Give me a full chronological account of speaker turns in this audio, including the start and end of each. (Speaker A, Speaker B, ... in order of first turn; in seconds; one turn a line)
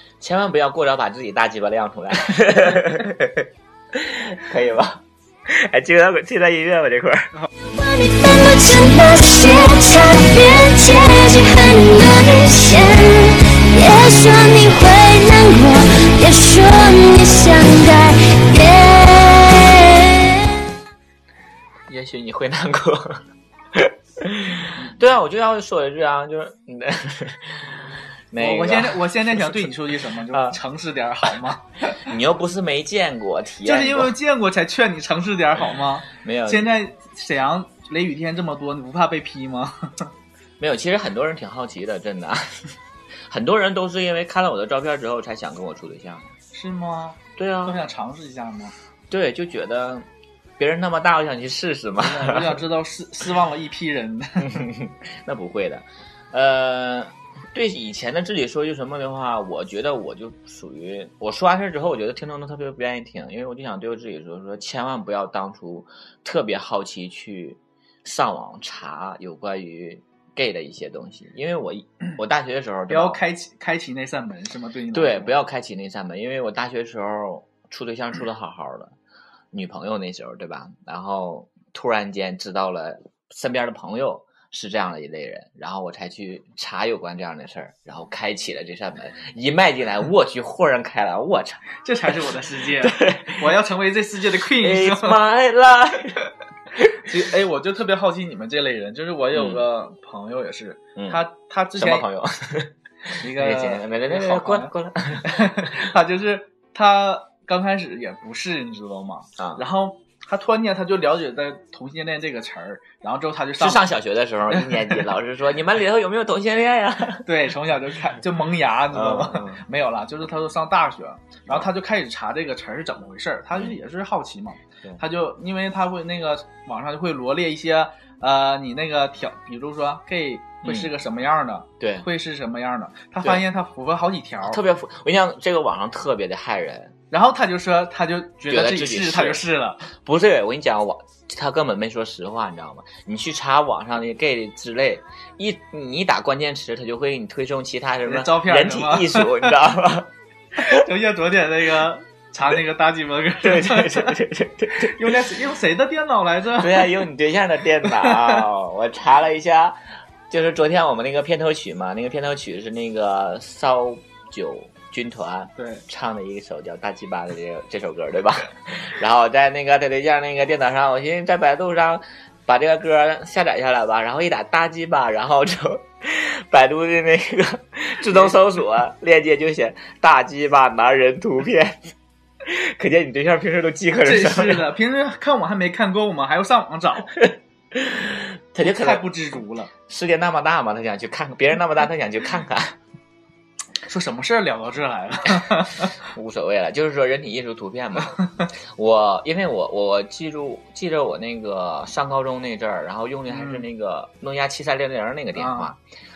Speaker A: 0.2-7.3
Speaker B: 7.7-20.6
Speaker A: 21.9-29.8
Speaker C: 28.4-32.1
Speaker A: 30.3-30.6
Speaker A: 32.0-34.1
Speaker C: 33.6-40.1
Speaker A: 36.1-36.7
Speaker A: 40.6-42.7
Speaker A: 43.3-46.3
Speaker C: 46.5-48.7
Speaker A: 47.4-47.8
Speaker A: 49.1-50.0
Speaker A: 50.6-52.6
Speaker C: 52.0-54.6
Speaker A: 54.4-73.2
Speaker C: 72.9-75.3
Speaker A: 74.9-78.9
Speaker A: 79.5-91.6
Speaker C: 91.8-95.2
Speaker A: 92.8-93.5
Speaker A: 94.5-96.2
Speaker C: 97.0-102.1
Speaker A: 99.3-99.6
Speaker A: 101.0-101.2
Speaker A: 101.8-105.8
Speaker C: 103.2-113.8
Speaker A: 113.6-117.2
Speaker C: 114.5-115.0
Speaker C: 117.2-134.6
Speaker A: 118.9-119.6
Speaker A: 130.6-130.9
Speaker A: 131.8-132.1
Speaker A: 134.4-136.9
Speaker C: 137.1-139.9
Speaker A: 138.5-150.8
Speaker C: 148.1-149.5
Speaker C: 150.6-157.0
Speaker A: 153.4-155.1
Speaker A: 156.6-159.8
Speaker C: 157.9-158.4
Speaker A: 160.3-181.9
Speaker C: 165.6-165.8
Speaker A: 182.4-184.7
Speaker C: 184.0-187.2
Speaker A: 187.2-189.1
Speaker C: 188.6-189.7
Speaker A: 189.9-192.8
Speaker C: 193.9-195.9
Speaker A: 196.0-205.8
Speaker C: 198.1-198.5
Speaker C: 203.3-203.7
Speaker C: 205.3-205.7